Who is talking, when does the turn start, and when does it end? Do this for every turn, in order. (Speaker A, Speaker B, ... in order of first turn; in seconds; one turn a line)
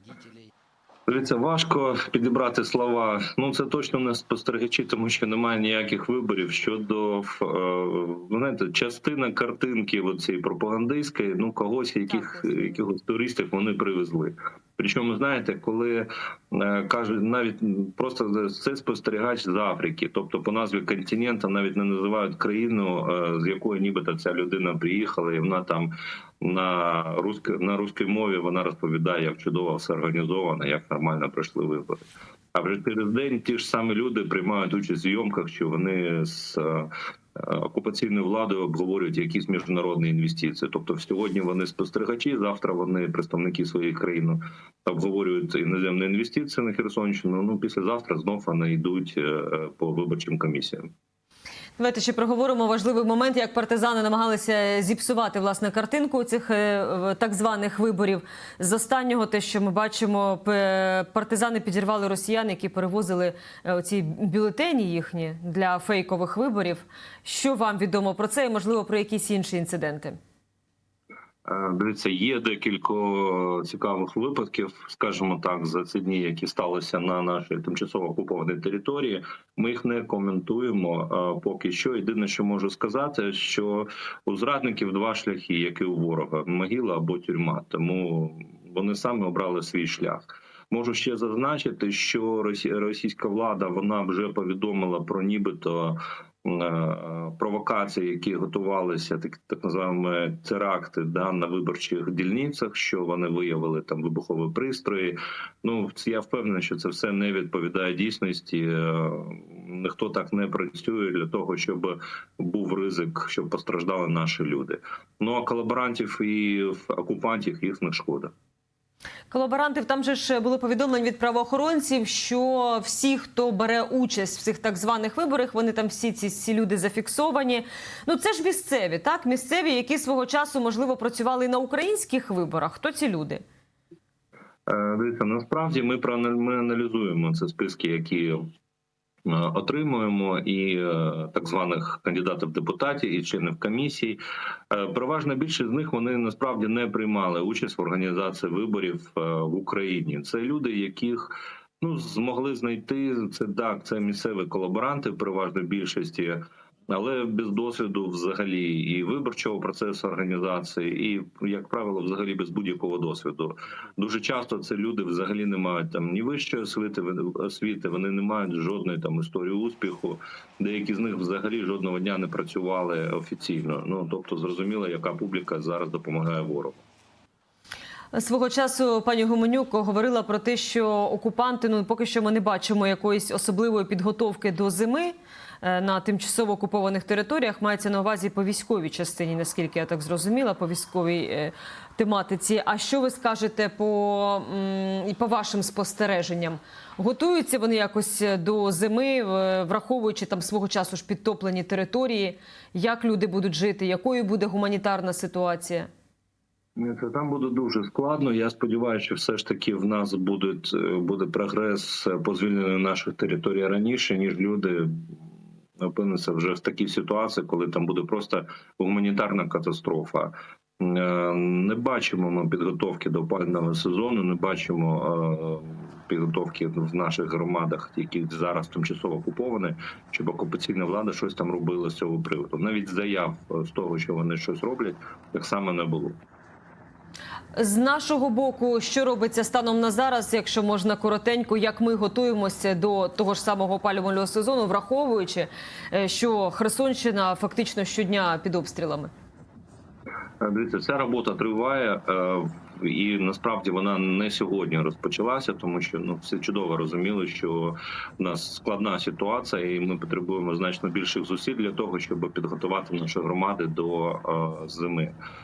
Speaker A: 1.1-32.0
Speaker B: 12.1-12.8
Speaker A: 32.5-50.9
Speaker B: 51.8-70.2
Speaker A: 71.5-118.3
Speaker B: 119.3-133.4
Speaker A: 134.7-138.4
Speaker A: 139.3-144.2
Speaker A: 144.7-176.8
Speaker B: 178.1-205.9
Speaker A: 206.8-215.3
Speaker A: 215.8-236.2
Speaker B: 237.6-249.1
Speaker A: 250.4-265.1